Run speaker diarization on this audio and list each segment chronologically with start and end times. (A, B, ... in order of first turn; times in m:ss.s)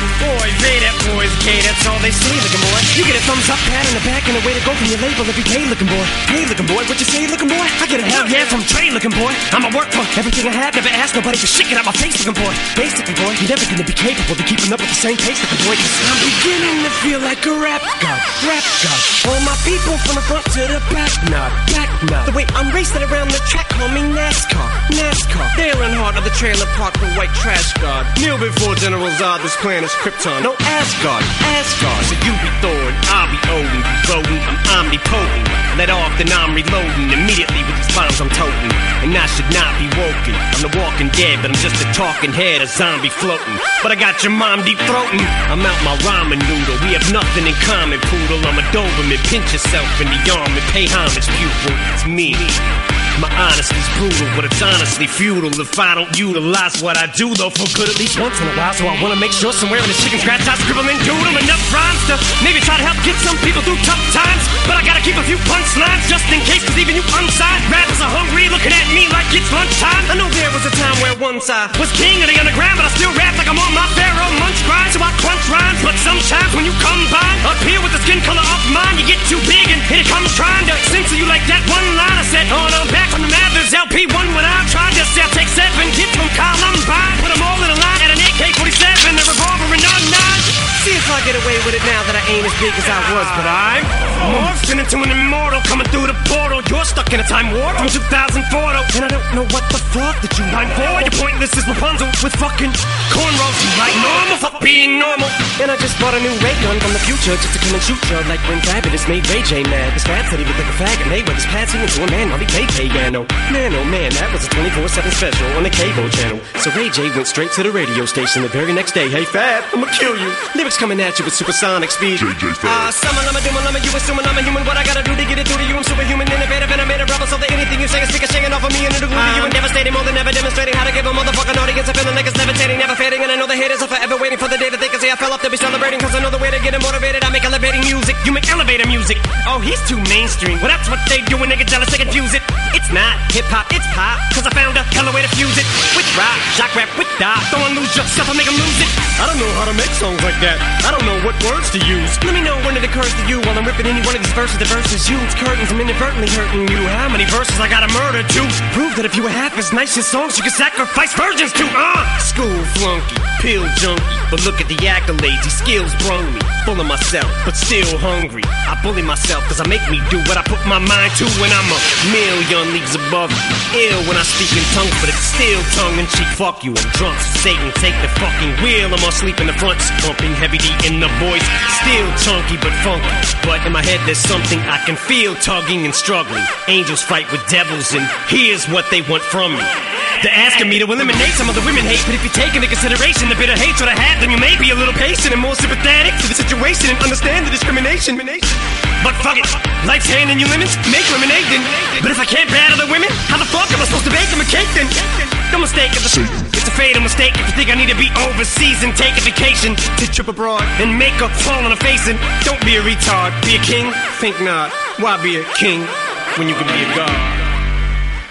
0:00.2-3:37.3 A